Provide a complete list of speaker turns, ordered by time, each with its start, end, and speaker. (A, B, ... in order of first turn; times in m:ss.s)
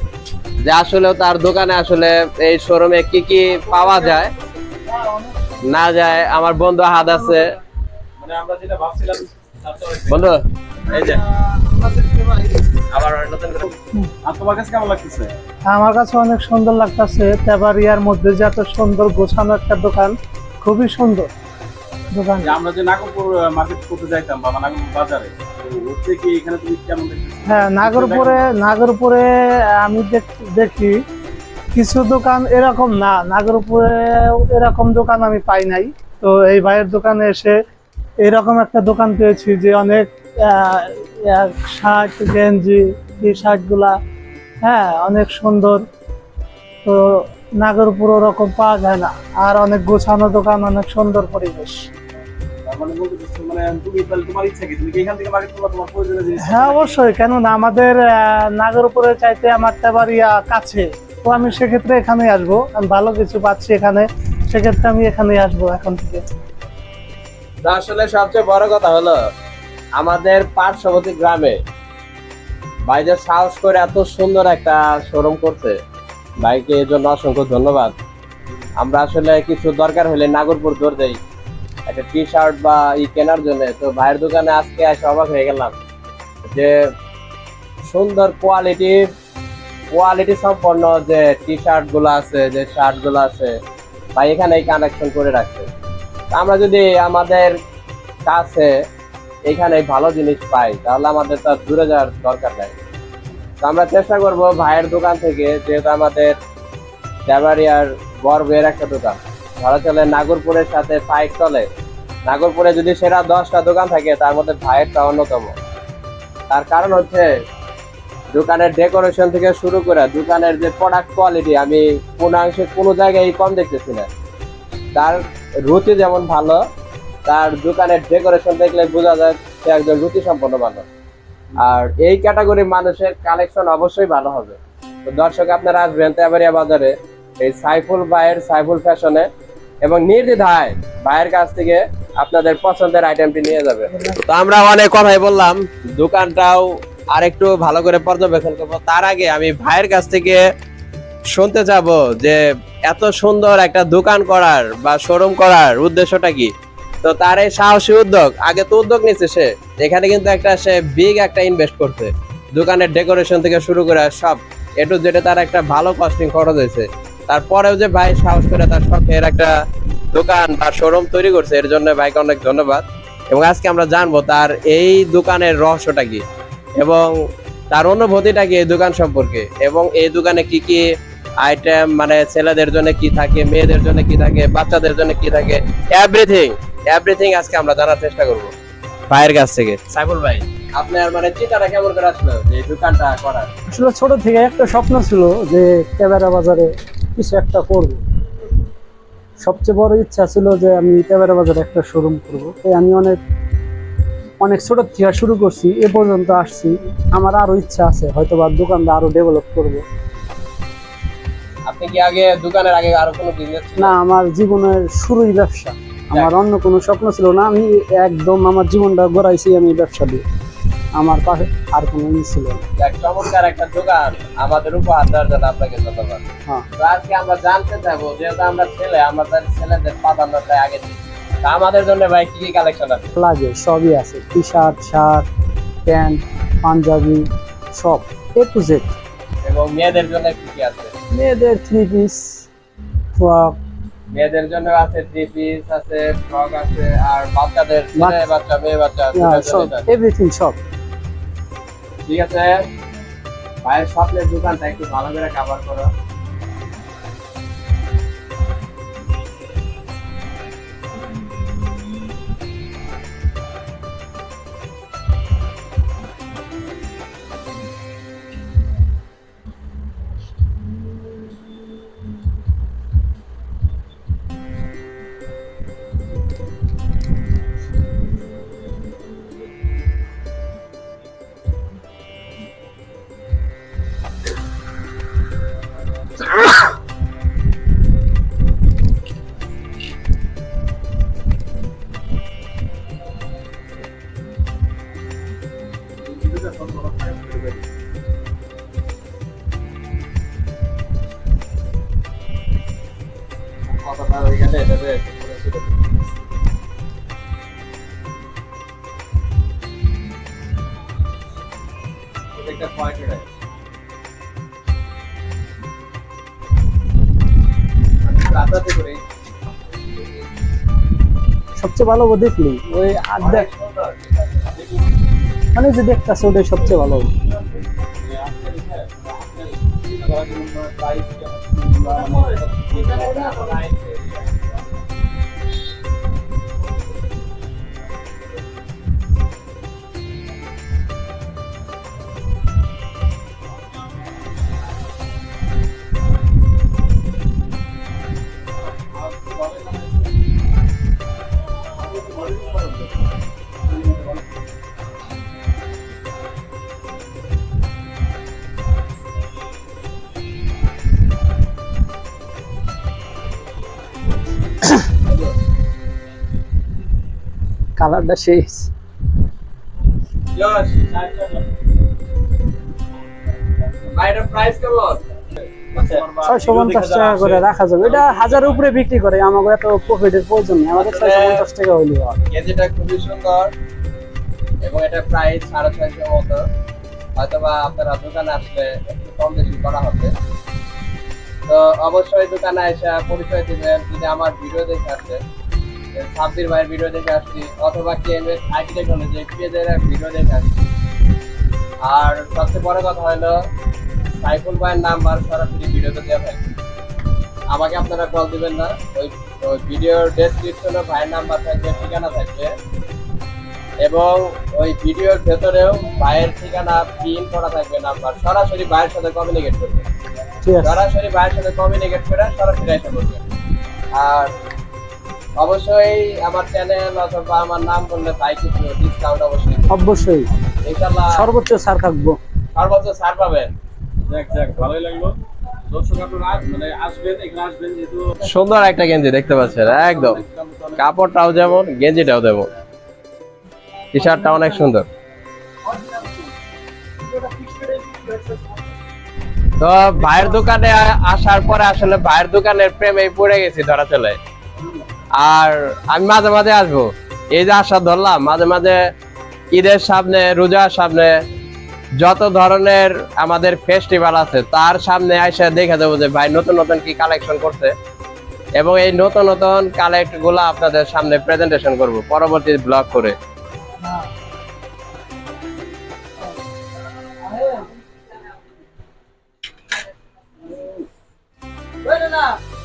0:00.6-0:04.3 A
0:03.8-0:05.6 B
0:05.6-0:07.5 A
0:08.2-0:10.3 C
0:10.1-0:11.2 A
0:10.9-0:12.7 B
0:12.9-0:13.7 A
0:14.2-0:15.3 C
0:15.7-0:21.3 B
0:22.1-0:22.6 B
0:22.4-0:28.5 C
0:27.5-0:30.9 B
0:31.7-0:37.6 B
0:38.2-0:44.0 B
0:44.6-0:45.8 B
0:46.8-0:51.9 B
0:52.6-0:57.0 C
0:56.4-1:06.2 B
1:07.6-1:09.2 A
1:10.0-1:11.6 A
1:12.9-1:15.8 A
1:16.4-1:18.0 A
1:18.8-1:21.2 A
1:21.9-1:25.8 A
1:26.5-1:26.8 A
1:27.9-1:29.1 A
1:29.9-1:33.5 A
1:34.2-1:35.7 A
1:36.3-1:37.5 A
1:38.3-1:38.7 A
1:39.5-1:42.8 A
1:43.6-1:46.4 A
1:47.3-1:51.7 A
1:52.3-1:55.6 A
1:56.5-1:57.3 A
1:58.3-2:04.1 A
2:05.0-2:06.6 A
2:07.3-2:10.9 A
2:11.6-2:19.3 A
2:19.8-2:30.4 A
2:31.3-2:36.5 A
2:37.0-2:49.5 A
2:50.1-2:56.2 A
2:56.8-2:57.1 A
2:57.7-3:00.8 A
3:01.4-3:08.5 A
3:09.1-3:13.5 A
3:13.7-3:18.0 D
3:19.4-3:23.2 D
3:24.4-3:29.8 D
3:31.7-3:33.9 A
3:33.8-3:40.2 D
3:40.9-3:42.6 D
3:42.8-3:46.2 A
3:46.8-3:53.1 A
3:53.2-3:55.3 D
3:55.9-3:59.0 D
3:59.4-4:00.9 A
4:01.1-4:02.5 D
4:03.2-4:03.6 D
4:04.1-4:09.9 A
4:08.0-4:08.2 D
4:09.1-4:10.6 D
4:12.1-4:12.6 A
4:13.6-4:15.9 A
4:56.0-4:57.6 C
5:03.7-5:05.7 A
5:12.4-5:13.2 A
5:18.0-5:19.0 A
5:21.6-5:23.5 D
5:23.2-5:24.1 A
5:24.6-5:24.9 C
5:25.5-5:27.1 D
5:28.0-5:33.4 C
5:32.7-5:34.3 A
5:48.8-5:50.1 C
5:51.8-5:53.1 C
5:53.7-5:54.2 C
6:07.8-6:08.7 D
6:10.4-6:10.8 A
6:10.7-6:11.5 C
6:13.3-6:13.9 C
6:13.9-6:15.0 A
6:15.7-6:16.6 C
6:15.7-6:17.4 A
6:16.2-6:22.2 D
6:17.9-6:18.4 A
6:20.8-6:21.4 A
6:22.3-6:23.5 A
6:24.6-6:26.4 A
6:27.2-6:30.1 A
6:31.5-6:35.2 A
6:36.0-6:40.5 A
6:41.8-6:43.4 A
6:44.2-6:46.5 A
6:47.5-6:52.5 A
6:53.8-6:59.8 A
7:00.4-7:00.8 D
7:00.6-7:03.2 A
7:03.9-7:04.3 A
7:05.4-7:09.7 A
7:09.7-7:10.3 D
7:10.6-7:11.2 A
7:11.1-7:12.2 D
7:12.5-7:13.5 A
7:14.1-7:18.2 C
7:18.2-7:20.2 A
7:19.4-7:21.0 C
7:20.8-7:22.5 A
7:23.9-7:24.9 A
7:25.8-7:26.2 D
7:27.1-7:28.6 C
7:29.6-7:34.2 A
7:35.2-7:38.8 A
7:39.5-7:41.1 A
7:42.0-7:47.7 A
7:48.6-7:53.2 A
7:57.3-7:57.6 B